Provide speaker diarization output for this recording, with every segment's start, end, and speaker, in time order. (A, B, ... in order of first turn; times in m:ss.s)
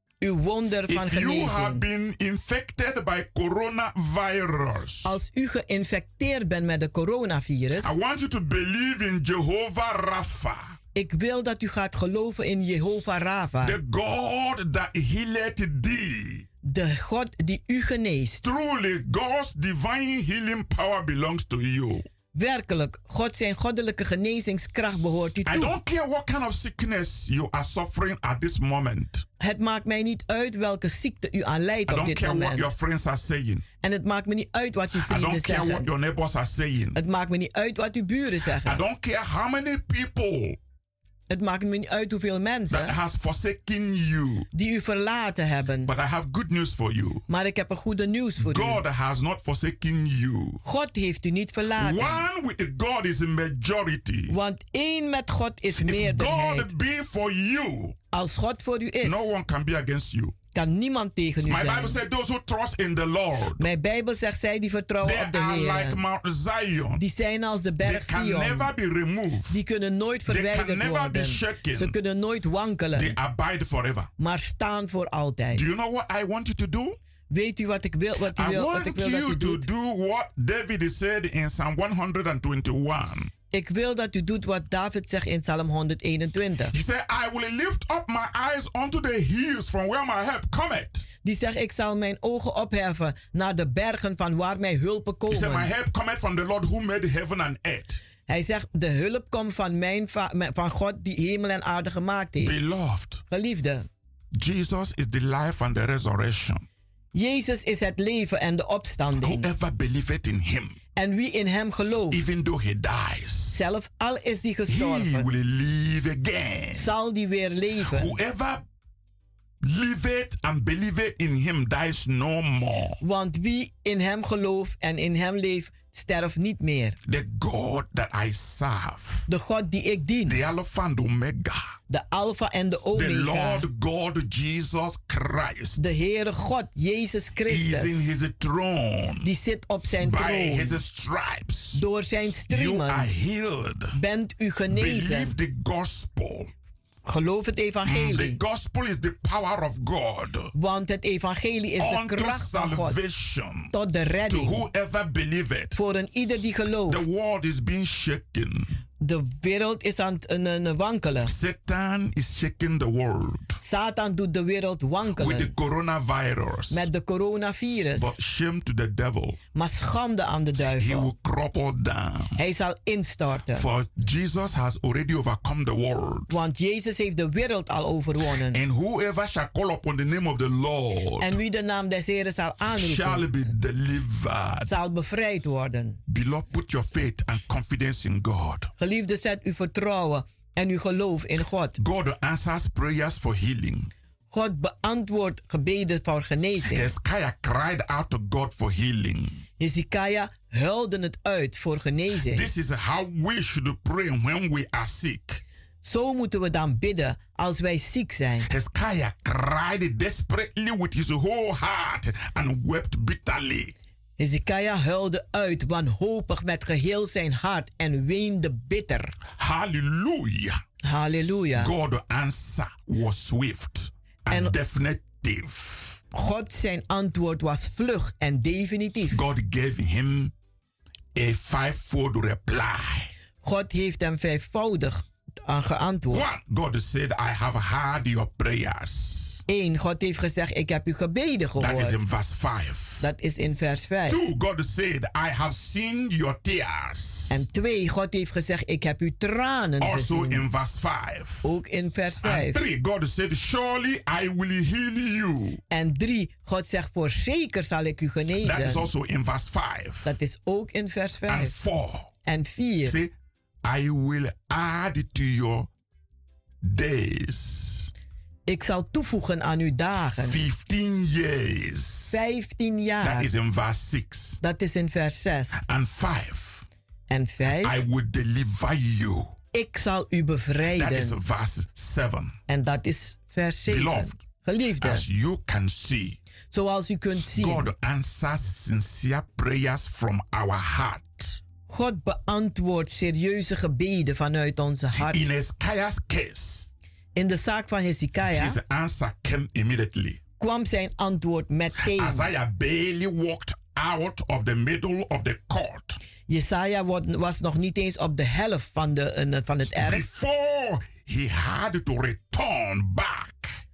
0:00.2-0:01.8 A
0:00.9-0:05.2 B
0:05.0-0:08.0 A
0:07.8-0:10.8 B
0:10.9-0:13.8 A
0:13.6-0:16.4 B
0:16.6-0:18.4 A
0:18.4-0:22.1 B
0:22.3-0:25.7 A
0:25.4-0:29.2 B
0:29.4-0:32.7 A
0:31.9-0:33.6 B
0:33.8-0:35.9 A
0:35.0-0:37.0 B
0:36.9-0:38.8 A
0:38.6-0:40.6 B
0:41.3-0:42.9 A
0:42.7-0:44.5 B
0:44.5-0:45.9 A
0:45.8-0:47.2 B
0:47.3-0:48.8 A
0:48.4-0:50.6 B
0:50.6-0:52.2 A
0:51.8-0:54.4 B
0:54.3-0:56.7 A
0:55.8-0:58.0 B
0:58.1-0:59.3 A
0:59.0-1:00.3 B
1:00.5-1:02.0 A
1:01.5-1:03.6 B
1:03.6-1:06.0 A
1:05.0-1:07.0 B
1:07.0-1:08.7 A
1:07.8-1:09.6 B
1:09.5-1:13.2 A
1:10.3-1:11.9 B
1:12.9-1:14.1 B
1:14.2-1:15.6 A
1:15.5-1:17.0 B
1:17.3-1:19.7 A
1:18.3-1:23.3 B
1:23.5-1:26.7 A
1:26.7-1:31.0 B
1:31.2-1:35.7 A
1:35.3-1:38.0 B
1:38.3-1:42.5 A
1:42.4-1:43.2 B
1:43.3-1:43.8 A
1:44.3-1:46.7 B
1:47.1-1:49.5 A
1:49.2-1:50.8 B
1:51.0-1:52.2 A
1:52.1-1:53.7 B
1:53.5-1:55.3 A
1:54.7-1:56.9 B
1:56.7-1:58.2 A
1:57.8-1:58.6 B
1:59.6-2:03.0 B
2:03.0-2:07.0 A
2:07.0-2:09.2 B
2:09.3-2:10.4 A
2:10.3-2:11.7 B
2:11.9-2:13.6 A
2:12.9-2:15.9 B
2:15.8-2:18.2 A
2:17.5-2:19.3 B
2:19.2-2:20.8 A
2:20.0-2:21.8 B
2:21.7-2:23.1 A
2:22.5-2:23.9 B
2:23.9-2:25.3 A
2:24.7-2:26.5 B
2:27.0-2:28.4 A
2:27.8-2:30.5 B
2:30.5-2:33.0 A
2:31.8-2:33.7 B
2:33.7-2:34.6 A
2:34.3-2:35.8 B
2:35.7-2:37.0 A
2:36.9-2:38.7 B
2:39.0-2:41.3 A
2:41.2-2:43.6 B
2:43.6-2:45.5 A
2:45.2-2:46.9 B
2:46.7-2:48.1 A
2:48.0-2:49.4 B
2:49.5-2:51.1 A
2:50.8-2:52.4 B
2:52.4-2:53.6 A
2:53.5-2:56.4 B
2:56.3-2:58.6 A
2:58.5-3:01.4 B
3:01.2-3:03.2 A
3:02.7-3:04.7 B
3:04.6-3:06.0 A
3:06.1-3:08.7 B
3:08.8-3:11.8 A
3:11.8-3:13.9 B
3:14.3-3:16.9 A
3:16.6-3:19.4 B
3:19.6-3:22.5 A
3:22.3-3:25.4 B
3:25.8-3:28.5 A
3:28.5-3:33.7 B
3:34.2-3:39.1 A
3:39.4-3:40.6 B
3:40.8-3:41.7 A
3:41.6-3:46.0 B
3:46.1-3:49.2 A
3:49.1-3:50.3 B
3:51.1-3:53.1 B
3:53.4-3:56.2 A
3:56.1-3:59.4 B
3:59.5-4:02.0 A
4:01.6-4:03.0 B
4:03.0-4:04.2 A
4:04.1-4:07.4 B
4:07.3-4:10.4 A
4:09.8-4:11.4 B
4:11.4-4:12.6 A
4:12.2-4:15.6 B
4:15.7-4:18.9 A
4:18.4-4:20.1 B
4:20.0-4:21.5 A
4:21.3-4:22.1 B
4:22.2-4:23.0 A
4:22.8-4:23.1 B
4:23.6-4:25.7 B
4:26.6-4:27.9 B
4:28.5-4:30.4 A
4:30.2-4:32.2 B
4:32.1-4:33.3 A
4:33.0-4:34.4 B
4:34.4-4:35.6 A
4:35.6-4:36.6 B
4:37.1-4:37.8 A
4:37.5-4:39.3 B
4:39.5-4:41.2 A
4:40.7-4:42.3 B
4:42.5-4:45.0 A
4:43.7-4:44.2 B
4:44.8-4:46.2 B
4:46.5-4:47.7 A
4:47.4-4:51.4 B
4:51.7-4:55.2 A
4:54.9-4:56.7 B
4:57.2-4:58.6 A
4:58.2-5:00.2 B
5:00.4-5:02.3 A
5:01.8-5:06.0 B
5:06.3-5:10.0 A
5:09.8-5:13.6 B